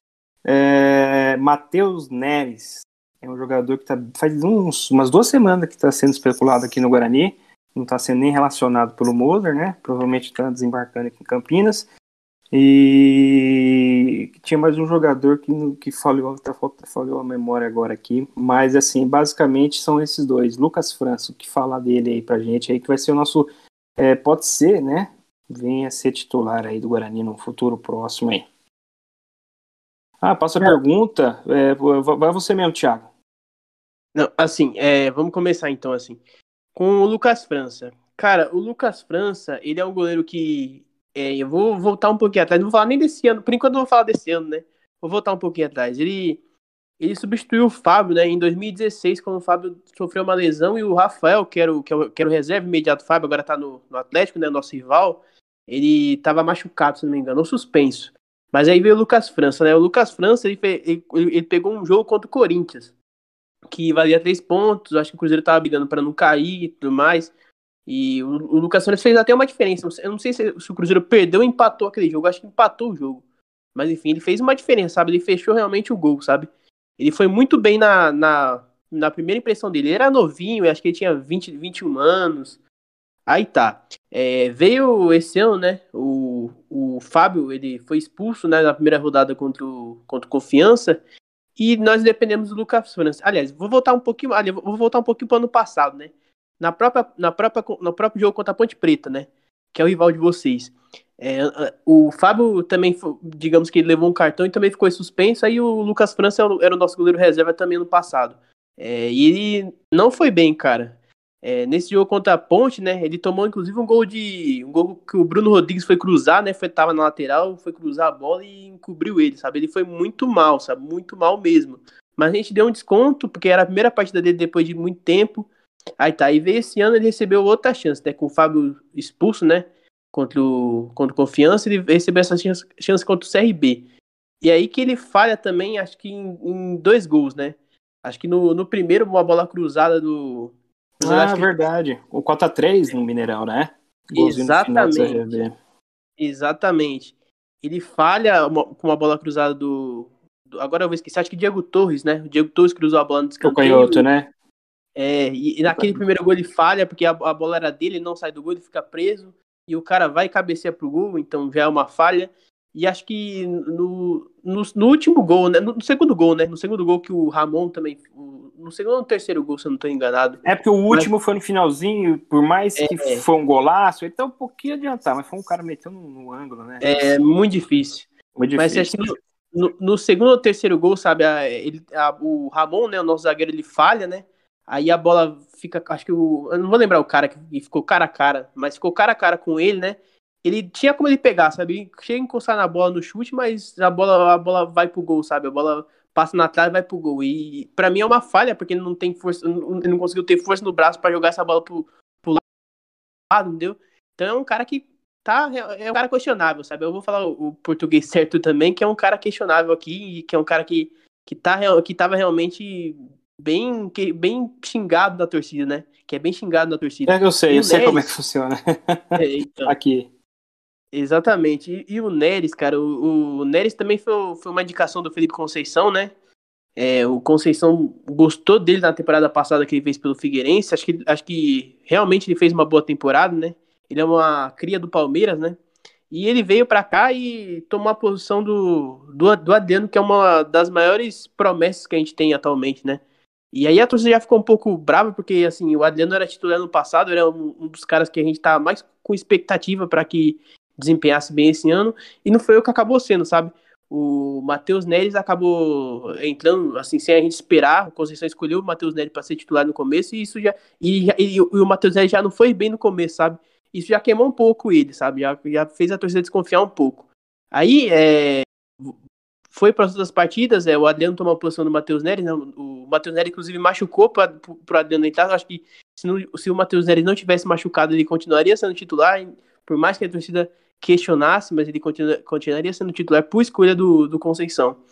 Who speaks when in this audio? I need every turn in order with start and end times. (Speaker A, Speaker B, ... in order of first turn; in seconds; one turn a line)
Speaker A: 0.4-11.9
Speaker A: 12.5-28.5
Speaker A: 30.2-33.1
Speaker B: 34.1-36.2
Speaker B: 36.7-46.4
Speaker B: 47.0-62.9
Speaker B: 63.7-67.3
Speaker B: 67.9-73.2
Speaker B: 73.7-82.6
Speaker B: 83.3-91.0
Speaker B: 91.6-125.5
Speaker B: 126.0-133.8
Speaker B: 134.4-141.5
Speaker A: 141.0-145.5
Speaker B: 144.1-145.3
Speaker B: 146.2-154.0
Speaker A: 153.4-154.3
Speaker B: 154.9-171.1
Speaker A: 170.4-177.0
Speaker B: 172.8-173.2
Speaker B: 176.8-202.4
Speaker A: 178.3-178.9
Speaker B: 203.3-218.1
Speaker A: 217.1-220.1
Speaker B: 219.2-219.7
Speaker B: 220.9-226.1
Speaker B: 226.8-235.6
Speaker B: 236.1-243.0
Speaker B: 243.5-268.9
Speaker B: 269.5-284.8